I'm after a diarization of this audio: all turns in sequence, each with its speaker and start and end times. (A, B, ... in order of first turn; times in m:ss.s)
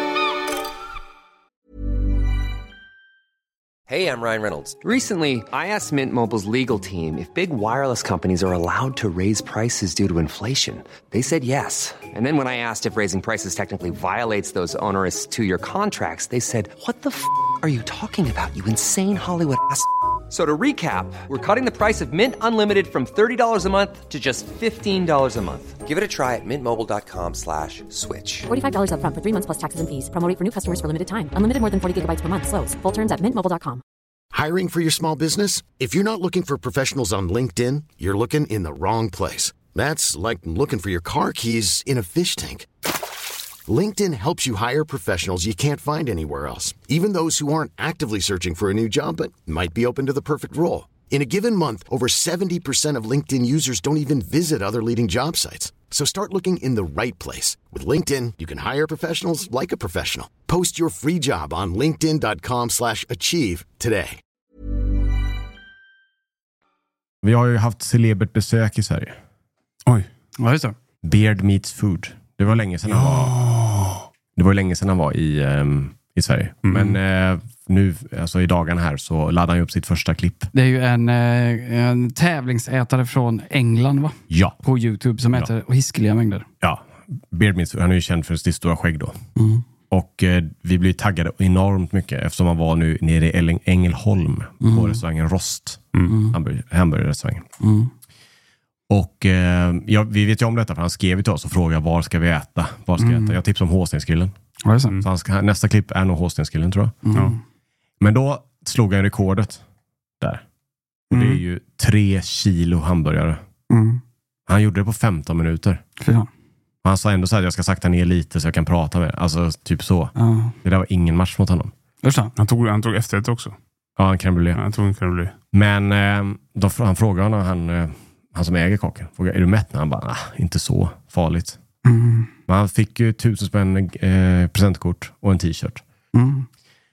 0:03.9-0:28.5 A
0:28.5-0:33.8 B
0:34.3-0:42.7 C
0:43.7-1:04.2 C
1:07.2-1:09.2 D
1:10.4-1:10.8 E
1:11.0-1:13.4 D
1:12.9-1:14.1 F
1:14.4-1:20.5 D
1:16.6-1:17.0 F
1:20.5-1:26.5 E
1:24.3-1:24.6 D
1:26.6-1:29.2 D
1:29.4-1:29.6 E
1:29.9-1:37.5 D
1:34.6-1:35.0 E
1:36.1-1:36.4 E
1:37.6-1:37.9 E
1:38.9-1:44.3 D
1:43.0-1:43.4 E
1:44.6-1:45.0 E
1:45.0-1:47.0 D
1:47.0-1:47.4 E
1:48.0-1:49.6 D
1:51.1-1:53.4 D
1:51.1-1:51.4 E
1:53.7-1:54.0 E
1:54.5-1:55.8 D
1:56.0-1:56.3 E
1:56.8-2:01.7 D
2:00.2-2:00.6 E
2:02.0-2:02.3 E
2:02.4-2:03.6 F
2:04.0-2:04.6 D
2:04.6-2:05.3 F
2:05.5-2:11.6 D
2:11.8-2:12.3 E
2:12.5-2:15.8 D
2:16.1-2:16.5 E